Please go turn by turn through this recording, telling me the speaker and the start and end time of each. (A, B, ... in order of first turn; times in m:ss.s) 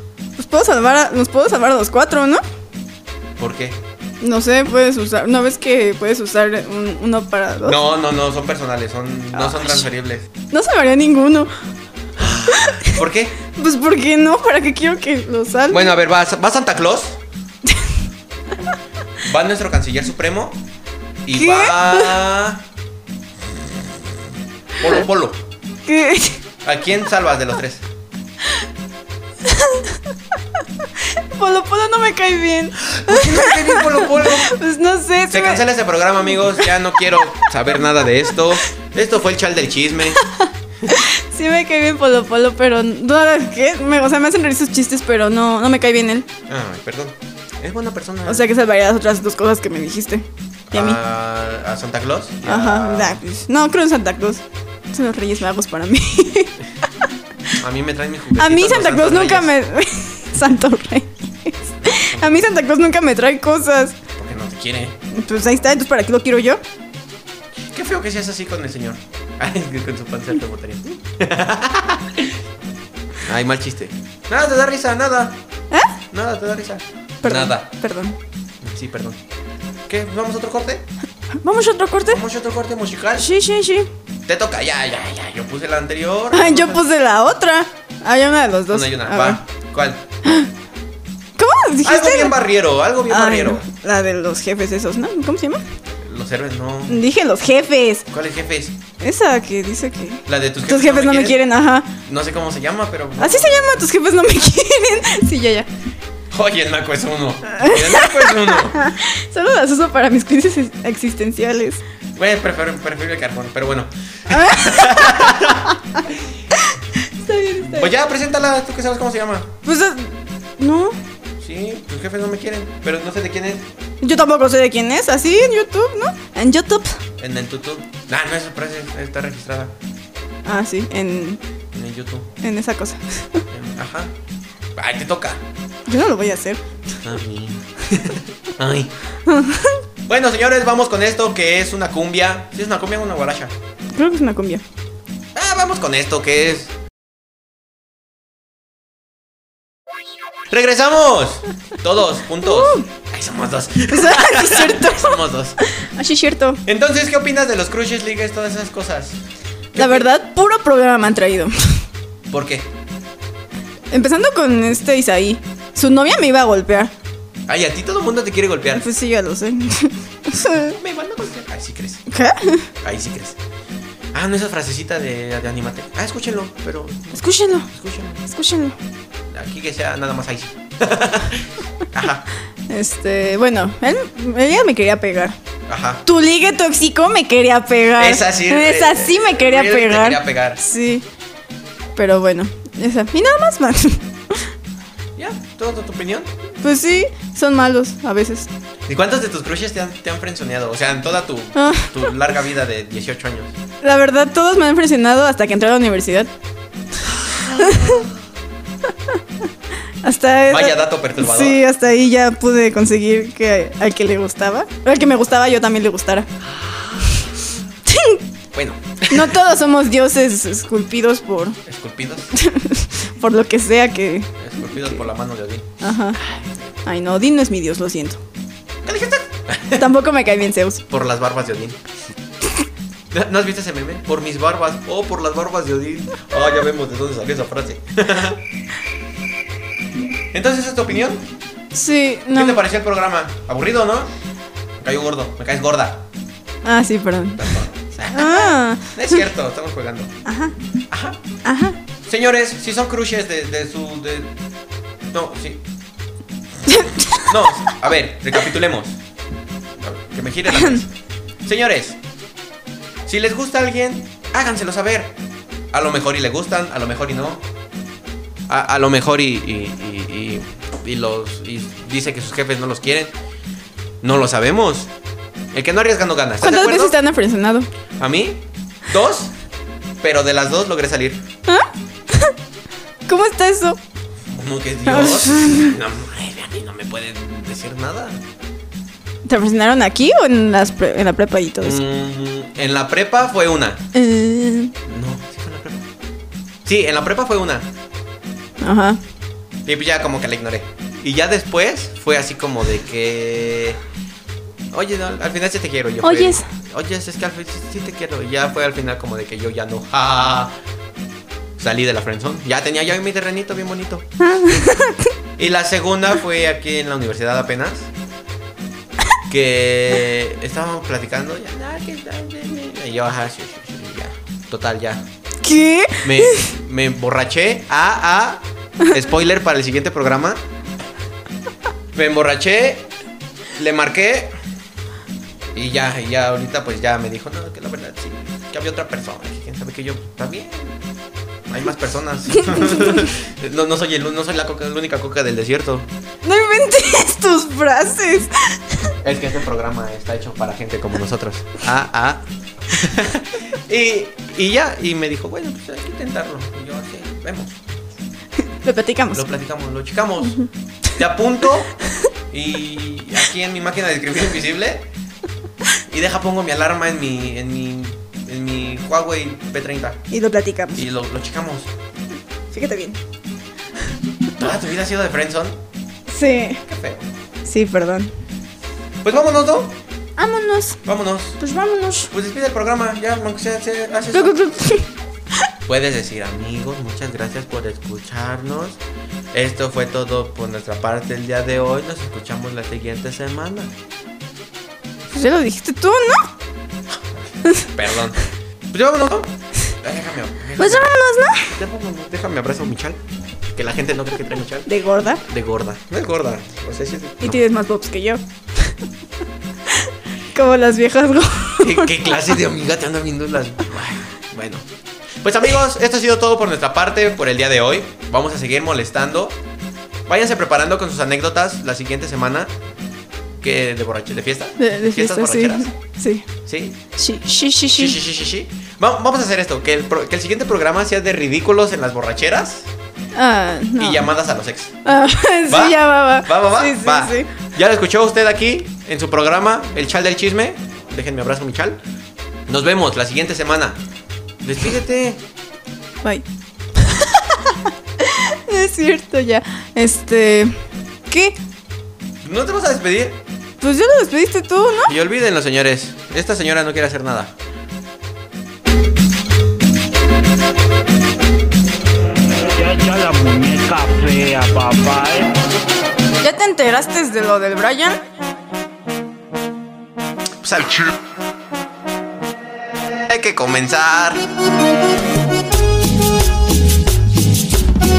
0:00.4-0:02.4 A
0:03.4-0:03.8 B
0:04.2-0:07.8 A
0:07.6-0:10.3 B
0:09.3-0:09.8 A
0:10.5-0:11.5 A
0:12.2-0:13.3 B
0:12.5-0:15.9 A
0:15.7-0:17.2 B
0:17.6-0:17.9 A
0:19.2-0:20.6 B
0:21.2-0:22.6 B
0:21.3-0:22.1 A
0:23.5-0:24.1 B
0:24.8-0:25.4 B
0:25.9-0:26.4 A
0:26.6-0:27.9 B
0:29.4-0:30.0 A
0:31.0-0:35.6 A
0:32.8-0:34.6 B
0:35.3-0:40.2 B
0:36.6-0:37.5 A
0:40.1-0:46.3 A
0:46.5-0:48.5 B
0:48.2-0:51.0 A
0:50.7-0:53.2 B
0:52.4-0:57.6 A
0:57.6-0:59.5 B
0:58.3-1:04.0 A
1:01.8-1:02.5 B
1:04.2-1:05.0 B
1:05.1-1:06.6 A
1:07.7-1:12.4 B
1:13.2-1:15.4 B
1:15.7-1:16.0 A
1:16.1-1:17.7 B
1:17.2-1:18.2 A
1:18.6-1:19.2 B
1:19.9-1:20.8 B
1:21.4-1:22.2 A
1:22.1-1:23.3 B
1:23.2-1:23.9 A
1:24.2-1:26.8 B
1:26.3-1:29.4 A
1:28.7-1:30.1 B
1:31.4-1:32.3 A
1:31.8-1:33.6 B
1:33.1-1:35.6 A
1:35.9-1:37.0 B
1:36.9-1:38.1 A
1:38.1-1:38.8 B
1:39.0-1:41.9 A
1:40.3-1:41.4 B
1:42.0-1:43.9 B
1:43.2-1:45.7 A
1:46.3-1:48.9 B
1:47.5-1:51.8 A
1:52.2-1:56.2 B
1:54.3-1:56.0 A
1:56.5-1:57.9 A
1:57.6-1:59.5 B
1:59.6-2:01.0 A
2:01.4-2:03.7 B
2:04.0-2:07.0 A
2:07.2-2:09.7 B
2:10.4-2:11.4 A
2:11.7-2:12.3 B
2:12.4-2:13.4 A
2:13.5-2:14.1 B
2:14.7-2:15.4 B
2:15.9-2:16.6 A
2:17.0-2:18.9 B
2:19.2-2:19.8 A
2:20.0-2:23.5 B
2:23.9-2:24.6 A
2:25.3-2:26.7 B
2:30.5-2:35.6 B
2:32.4-2:32.9 A
2:33.9-2:36.6 A
2:36.6-2:39.2 B
2:39.7-2:40.1 B
2:39.7-2:41.8 A
2:42.3-2:42.7 B
2:43.9-2:46.9 A
2:47.5-2:48.9 B
2:48.7-2:50.8 A
2:50.5-2:52.0 B
2:52.1-2:52.7 A
2:52.8-2:53.4 B
2:54.1-2:58.2 B
2:57.1-2:57.7 A
2:58.2-2:58.8 A
2:59.3-3:02.2 B
3:02.7-3:05.3 A
3:05.7-3:06.0 B
3:06.0-3:11.0 A
3:08.0-3:10.6 B
3:12.0-3:14.5 A
3:15.2-3:16.3 B
3:16.6-3:18.5 A
3:18.9-3:23.6 B
3:21.5-3:22.0 A
3:23.8-3:26.3 A
3:27.2-3:28.2 B
3:27.4-3:28.1 A
3:30.0-3:36.3 A
3:30.5-3:31.6 B
3:36.5-3:37.2 B
3:37.8-3:38.2 A
3:38.5-3:39.4 B
3:39.1-3:41.6 A
3:41.6-3:42.3 B
3:42.3-3:45.0 A
3:44.4-3:45.7 B
3:45.8-3:46.2 A
3:46.8-3:48.2 A
3:48.8-3:49.9 B
3:49.8-3:50.8 A
3:50.9-3:51.8 B
3:53.1-3:58.4 B
4:00.3-4:01.3 B
4:01.7-4:02.6 A
4:02.3-4:04.1 B
4:04.8-4:06.0 B
4:06.6-4:07.6 A
4:07.4-4:10.1 B
4:08.1-4:09.2 A
4:10.2-4:10.5 A
4:10.9-4:11.2 B
4:11.4-4:11.8 A
4:12.0-4:14.4 B
4:15.1-4:15.6 B
4:16.6-4:17.5 A
4:17.3-4:19.0 B
4:19.8-4:20.9 B
4:20.5-4:20.8 A
4:21.4-4:22.0 B
4:23.0-4:25.2 B
4:25.7-4:27.4 B
4:28.5-4:33.1 B
4:34.0-4:34.9 B
4:35.5-4:37.0 B
4:36.4-4:37.7 A
4:38.0-4:39.3 B
4:40.0-4:41.2 B
4:41.5-4:42.3 A
4:43.1-4:43.8 A
4:44.3-4:48.2 B
4:44.8-4:45.7 A
4:49.2-4:51.8 A
4:51.6-4:53.8 B
4:53.9-4:54.7 A
4:54.8-4:55.9 B
4:56.6-4:57.7 B
4:58.6-4:59.0 A
4:59.6-5:03.8 B
5:04.7-5:10.6 B
5:06.0-5:06.5 A
5:11.6-5:14.6 B
5:14.2-5:15.1 A
5:15.4-5:17.9 B
5:19.3-5:25.0 B
5:25.4-5:26.5 A
5:26.0-5:30.4 B
5:31.9-5:32.9 B
5:33.5-5:34.3 B
5:35.5-5:40.8 B
5:41.5-5:45.9 B
5:42.5-5:43.0 A
5:46.2-5:48.9 A
5:49.0-5:57.6 B
5:58.6-5:59.2 A
5:59.1-6:00.4 B
6:01.0-6:01.7 B
6:02.3-6:04.9 B
6:05.9-6:10.0 B
6:10.1-6:10.8 A
6:10.7-6:11.7 B
6:12.5-6:13.0 A
6:14.4-6:15.6 B
6:16.1-6:16.6 A
6:16.6-6:17.1 B
6:17.4-6:18.1 A
6:19.0-6:19.8 B
6:20.2-6:20.8 A
6:20.8-6:21.4 B
6:21.4-6:22.1 A
6:22.1-6:24.6 B
6:24.1-6:24.9 A
6:25.7-6:28.8 B
6:29.3-6:33.7 B
6:35.1-6:36.3 A
6:37.7-6:38.2 B
6:38.7-6:40.9 B
6:40.6-6:41.6 A
6:41.5-6:43.0 B
6:43.5-6:44.7 B
6:44.6-6:45.2 A
6:45.2-6:47.4 B
6:47.2-6:48.7 A
6:49.7-6:52.0 A
6:51.6-6:54.6 B
6:55.2-6:59.4 B
7:00.1-7:02.5 B
7:03.4-7:05.7 B
7:04.6-7:06.2 A
7:06.4-7:06.8 B
7:07.0-7:08.0 A
7:07.7-7:12.7 B
7:13.1-7:14.0 A
7:13.8-7:14.7 B
7:14.8-7:17.3 A
7:15.5-7:21.8 B
7:22.5-7:23.8 B
7:24.4-7:25.2 B
7:26.8-7:30.5 A
7:31.1-7:31.4 A
7:32.2-7:33.2 B
7:33.6-7:34.9 A
7:34.8-7:37.3 B
7:42.2-7:45.4 C
7:46.2-7:48.0 A
7:50.4-7:51.0 B
7:53.0-7:54.3 B